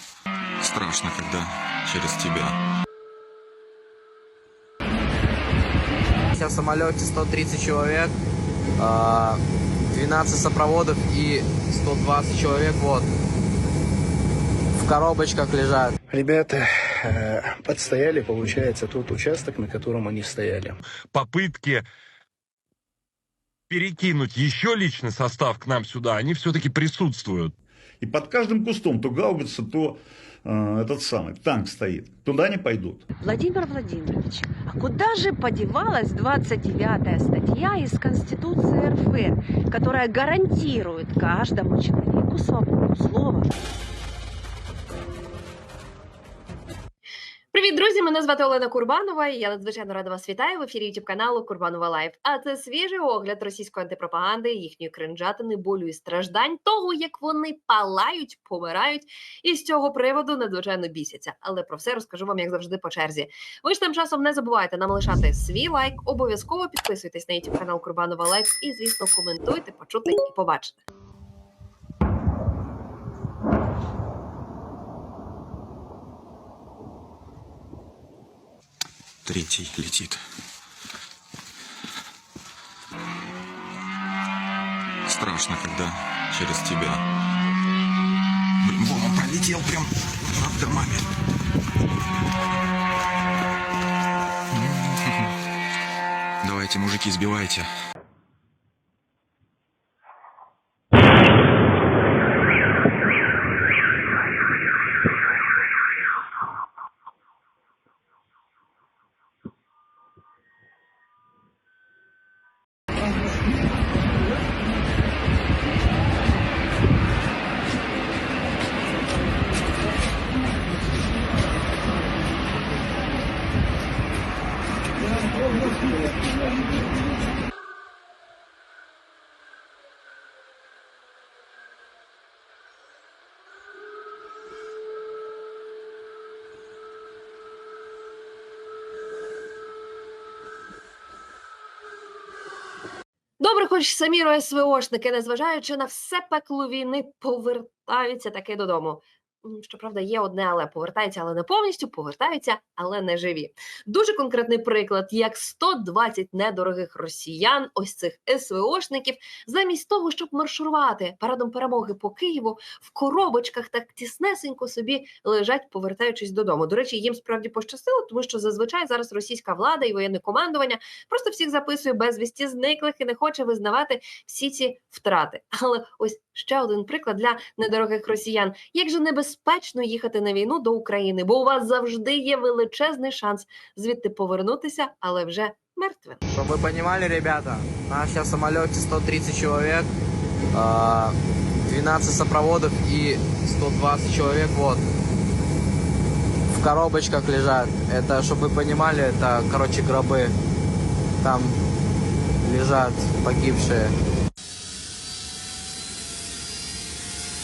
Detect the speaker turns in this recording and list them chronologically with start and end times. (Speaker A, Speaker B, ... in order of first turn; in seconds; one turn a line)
Speaker A: 0.6-2.6
Speaker B: 6.3-8.2
Speaker B: 8.8-13.1
Speaker B: 14.8-15.9
Speaker C: 16.1-20.8
Speaker D: 21.1-21.8
Speaker D: 23.7-27.5
Speaker E: 28.0-33.0
Speaker F: 33.2-43.5
Speaker G: 47.5-70.8
Speaker A: 79.2-80.2
Speaker A: 85.1-87.0
Speaker A: 88.6-91.1
Speaker A: 94.5-95.3
Speaker A: 96.4-97.7
Speaker G: 143.4-186.2
Speaker B: 186.3-189.9
Speaker B: 190.5-194.8
Speaker B: 196.5-200.3
Speaker B: 201.2-201.6
Speaker B: 202.4-203.9